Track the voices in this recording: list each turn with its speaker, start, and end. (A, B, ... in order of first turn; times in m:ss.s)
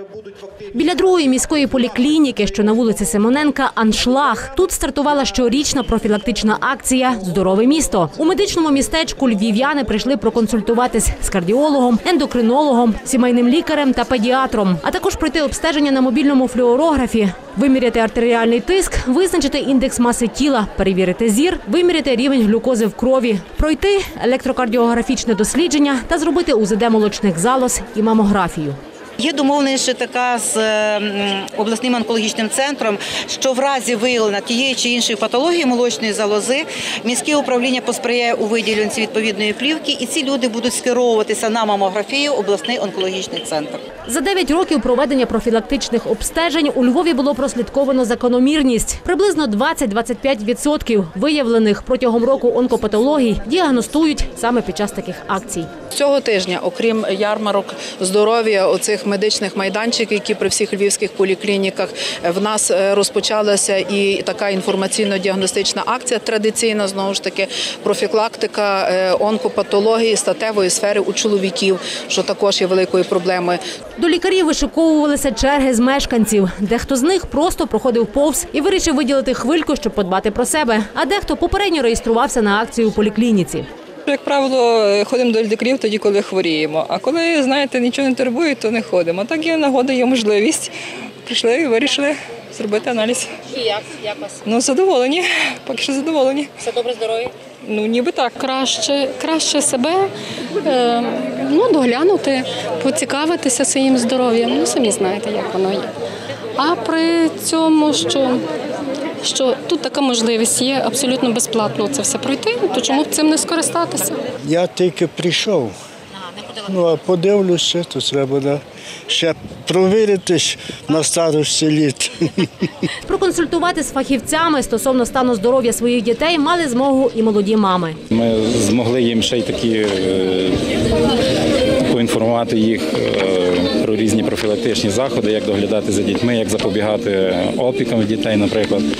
0:00.7-0:28.8 A
0:29.2-0:43.8 B
0:44.1-0:55.7 A
0:55.9-1:13.6 C
1:14.0-1:23.7 A
1:24.1-1:30.7 D
1:31.2-1:33.3 D
1:34.4-1:36.5 D
1:37.6-1:38.2 D
1:38.2-1:40.1 E
1:40.7-1:45.9 E
1:46.6-1:48.4 E
1:49.2-1:54.1 E
1:54.4-1:55.7 F
1:56.6-2:02.5 F
2:03.1-2:08.0 A
2:08.1-2:10.6 G
2:11.8-2:18.9 G